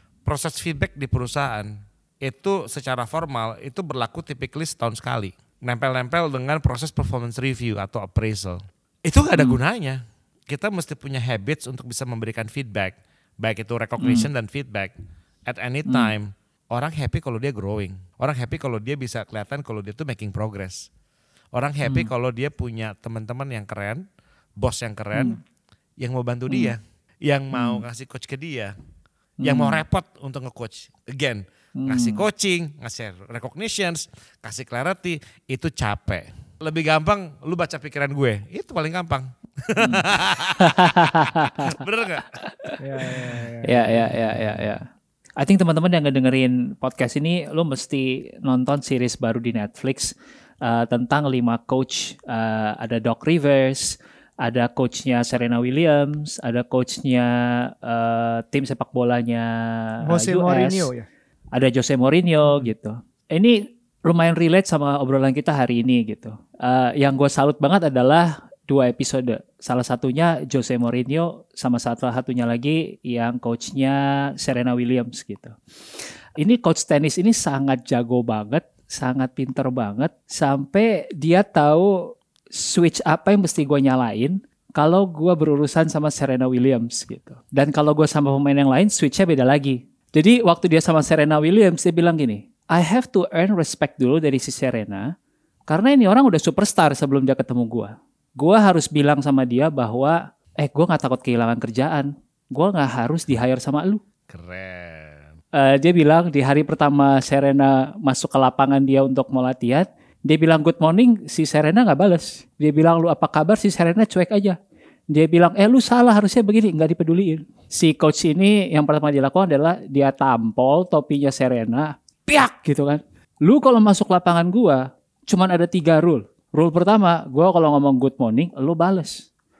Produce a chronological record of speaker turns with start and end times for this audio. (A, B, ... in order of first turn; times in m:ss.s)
0:00.2-0:14.9 A
0:14.0-0:14.3 B
0:15.4-0:20.9 A
0:15.8-0:16.1 B
0:21.5-0:24.0 A
0:21.8-0:22.1 B
0:24.6-0:25.4 A
0:25.1-0:25.4 B
0:26.0-0:28.8 A
0:27.5-0:27.8 B
0:29.4-0:29.8 B
0:29.4-0:42.3 A
0:31.8-0:32.2 B
0:39.8-0:40.0 B
0:40.6-0:41.7 B
0:42.4-0:42.8 B
0:42.8-0:43.8 C
0:43.6-0:44.8 B
0:45.4-1:00.9 B
1:00.0-1:01.0 C
1:01.5-1:15.6 B
1:16.4-1:35.1 B
1:35.7-1:44.0 B
1:44.3-1:45.3 A
1:45.5-1:54.6 B
1:55.1-2:09.3 B